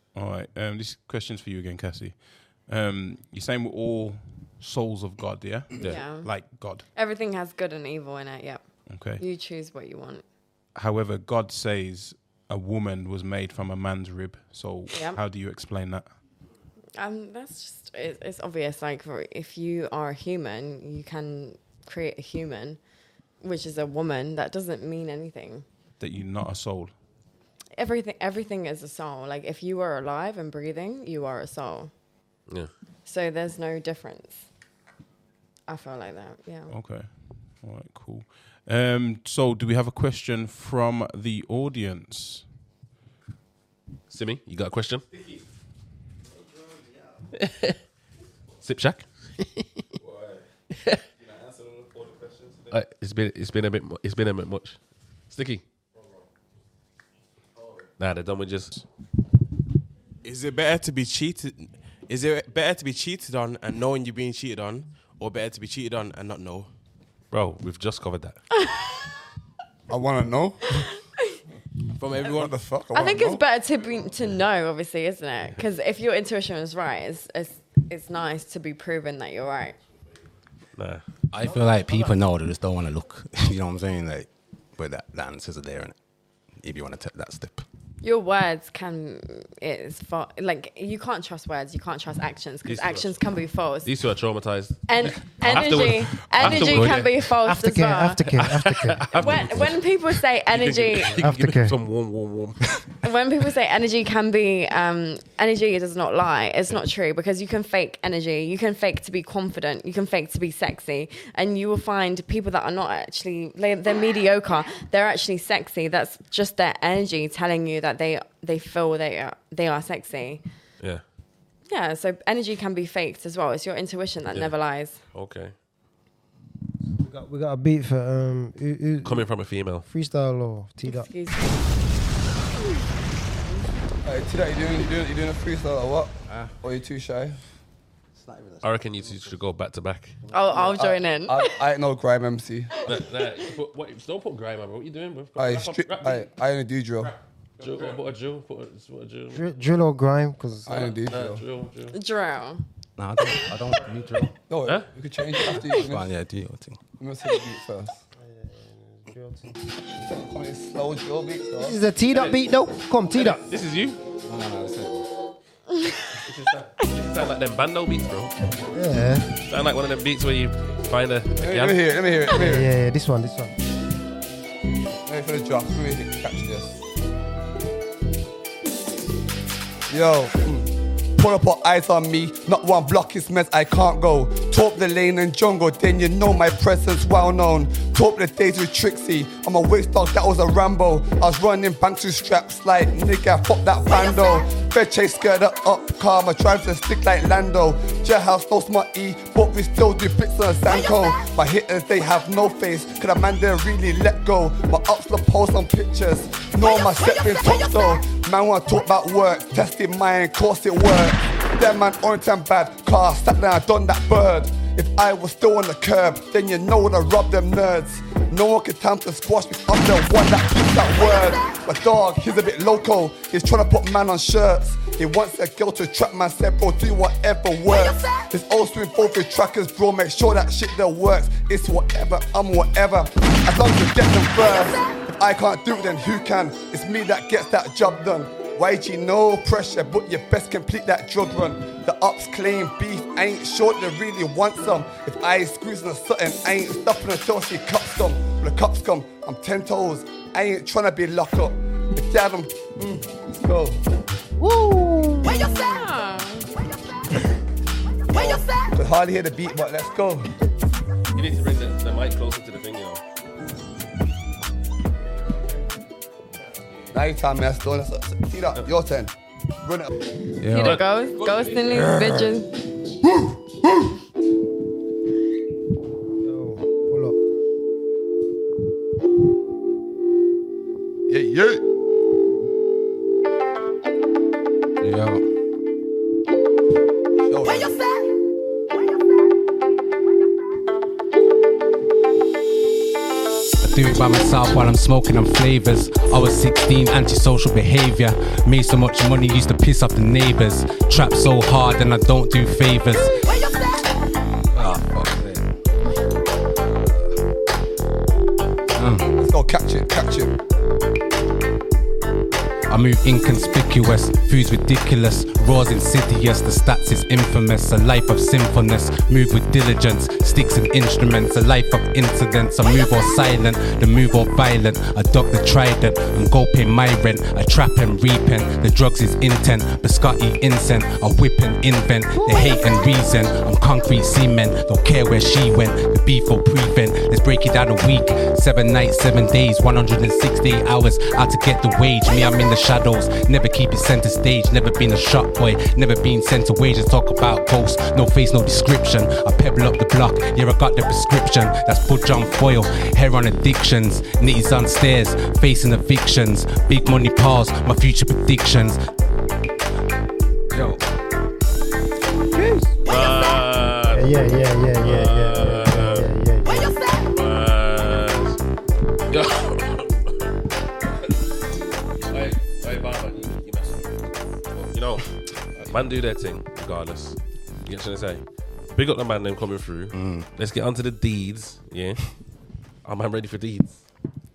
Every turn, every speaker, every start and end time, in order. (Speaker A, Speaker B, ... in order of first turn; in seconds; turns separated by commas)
Speaker A: 0.1-6.9, Speaker B: 5.8-6.4, Speaker C: 5.8-6.1, Speaker B: 7.0-8.7, Speaker A: 8.9-9.2, Speaker B: 9.2-10.2, Speaker A: 10.8-16.1, Speaker B: 14.9-15.2, Speaker B: 17.0-22.8, Speaker B: 23.4-25.6, Speaker A: 26.0-26.9, Speaker B: 27.8-31.9, Speaker B: 33.1-34.5, Speaker B: 35.7-36.7, Speaker A: 36.7-42.5, Speaker C: 44.1-45.1, Speaker C: 47.4-47.8, Speaker C: 48.6-49.8, Speaker D: 51.5-52.6, Speaker C: 52.7-54.8, Speaker C: 55.3-55.6, Speaker C: 58.0-58.8, Speaker D: 60.2-66.7, Speaker C: 67.3-68.4, Speaker B: 68.5-69.0, Speaker E: 69.9-70.9, Speaker B: 70.8-71.3, Speaker C: 72.0-72.5, Speaker E: 72.2-73.4, Speaker B: 72.9-79.8, Speaker C: 80.8-81.0, Speaker F: 81.3-86.0, Speaker F: 86.6-87.7, Speaker B: 88.0-93.9, Speaker C: 92.7-93.2, Speaker C: 93.8-97.3, Speaker B: 94.9-98.4, Speaker F: 96.3-97.1, Speaker G: 97.5-99.1, Speaker C: 98.4-102.9, Speaker B: 99.1-101.2, Speaker F: 99.2-99.7, Speaker G: 101.1-101.8, Speaker B: 103.0-120.5, Speaker B: 121.7-125.0, Speaker C: 125.1-125.5, Speaker G: 127.0-131.1, Speaker C: 129.0-129.9, Speaker B: 130.9-131.7, Speaker E: 134.0-137.4, Speaker F: 138.3-138.6, Speaker C: 138.6-140.2, Speaker B: 140.3-141.6, Speaker E: 140.5-142.8, Speaker C: 142.8-146.3, Speaker E: 145.4-147.1, Speaker C: 147.6-149.5, Speaker G: 149.3-150.8, Speaker E: 150.7-151.4, Speaker C: 150.7-152.0, Speaker B: 151.9-152.6, Speaker F: 153.0-154.3, Speaker E: 154.5-156.1, Speaker C: 154.7-154.9, Speaker F: 155.7-156.8, Speaker E: 157.0-158.0, Speaker G: 158.2-159.6, Speaker E: 159.9-161.8, Speaker G: 161.6-163.4, Speaker C: 162.1-162.4, Speaker C: 163.2-164.0, Speaker F: 164.2-165.1, Speaker B: 165.7-166.2, Speaker C: 166.2-168.3, Speaker G: 168.7-169.3, Speaker C: 169.4-171.8, Speaker E: 171.4-172.7, Speaker G: 172.3-173.6, Speaker E: 175.1-176.8, Speaker E: 179.9-253.8, Speaker G: 254.4-255.7, Speaker B: 255.3-256.5, Speaker E: 258.1-260.3, Speaker C: 261.1-263.0, Speaker E: 266.9-269.9, Speaker F: 270.4-270.8, Speaker B: 270.5-272.6, Speaker C: 270.6-271.9, Speaker E: 271.7-272.3, Speaker E: 273.0-273.9, Speaker G: 276.2-277.2, Speaker E: 281.1-281.6, Speaker F: 284.8-285.2, Speaker E: 287.2-287.8, Speaker F: 293.6-303.2, Speaker F: 304.5-305.5, Speaker F: 306.7-307.1, Speaker F: 308.7-309.2, Speaker E: 309.1-310.4, Speaker F: 312.7-358.9, Speaker G: 332.1-332.6, Speaker F: 360.5-360.8, Speaker G: 362.3-362.8, Speaker C: 362.9-366.1, Speaker G: 363.9-366.8, Speaker C: 367.1-368.4, Speaker C: 369.1-370.1, Speaker C: 372.1-375.1, Speaker C: 375.7-378.2, Speaker C: 378.8-382.1, Speaker F: 379.9-380.3, Speaker C: 382.9-383.8